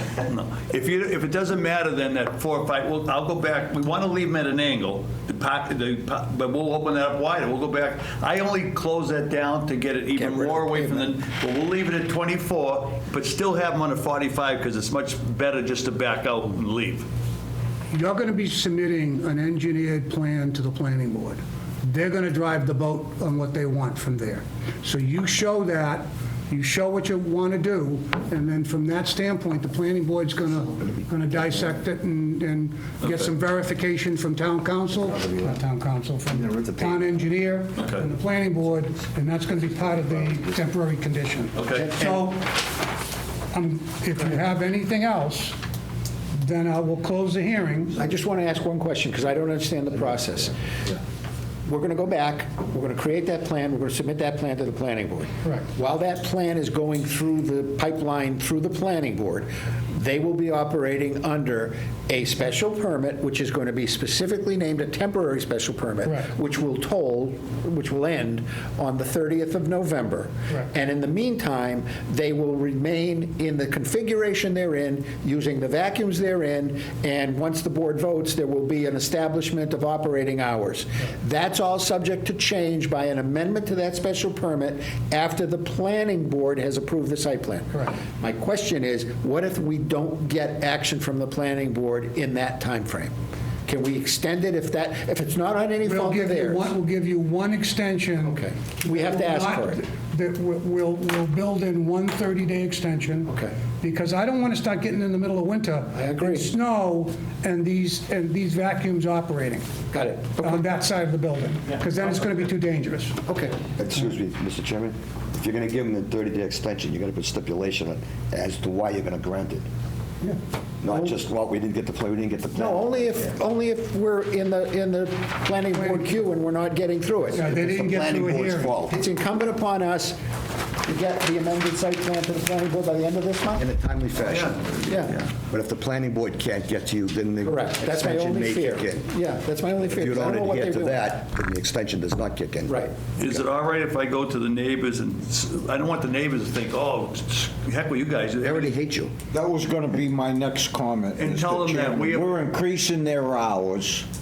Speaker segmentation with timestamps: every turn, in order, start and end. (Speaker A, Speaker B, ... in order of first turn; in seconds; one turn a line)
Speaker A: 0.2-17.1
Speaker B: 10.1-11.1
Speaker C: 17.9-42.5
Speaker D: 35.2-35.6
Speaker D: 36.5-37.0
Speaker A: 37.8-38.0
Speaker A: 41.5-42.0
Speaker B: 41.7-42.2
Speaker C: 43.5-45.5
Speaker C: 46.4-48.0
Speaker B: 48.0-50.5
Speaker B: 51.6-93.1
Speaker C: 66.0-66.3
Speaker B: 93.7-96.7
Speaker C: 95.8-109.7
Speaker B: 98.2-99.8
Speaker B: 103.3-103.5
Speaker B: 105.9-106.5
Speaker B: 109.9-110.6
Speaker C: 110.4-113.2
Speaker B: 113.2-113.6
Speaker D: 113.6-119.7
Speaker D: 120.8-123.2
Speaker B: 122.5-128.0
Speaker C: 125.8-126.0
Speaker C: 127.3-128.7
Speaker D: 127.6-129.0
Speaker B: 128.6-130.2
Speaker B: 130.8-133.7
Speaker D: 133.6-139.1
Speaker A: 134.2-134.6
Speaker B: 134.9-135.2
Speaker B: 137.4-141.1
Speaker D: 139.8-143.4
Speaker B: 142.7-142.9
Speaker A: 143.2-148.7
Speaker D: 148.4-149.1
Speaker E: 149.3-154.1
Speaker A: 151.2-152.4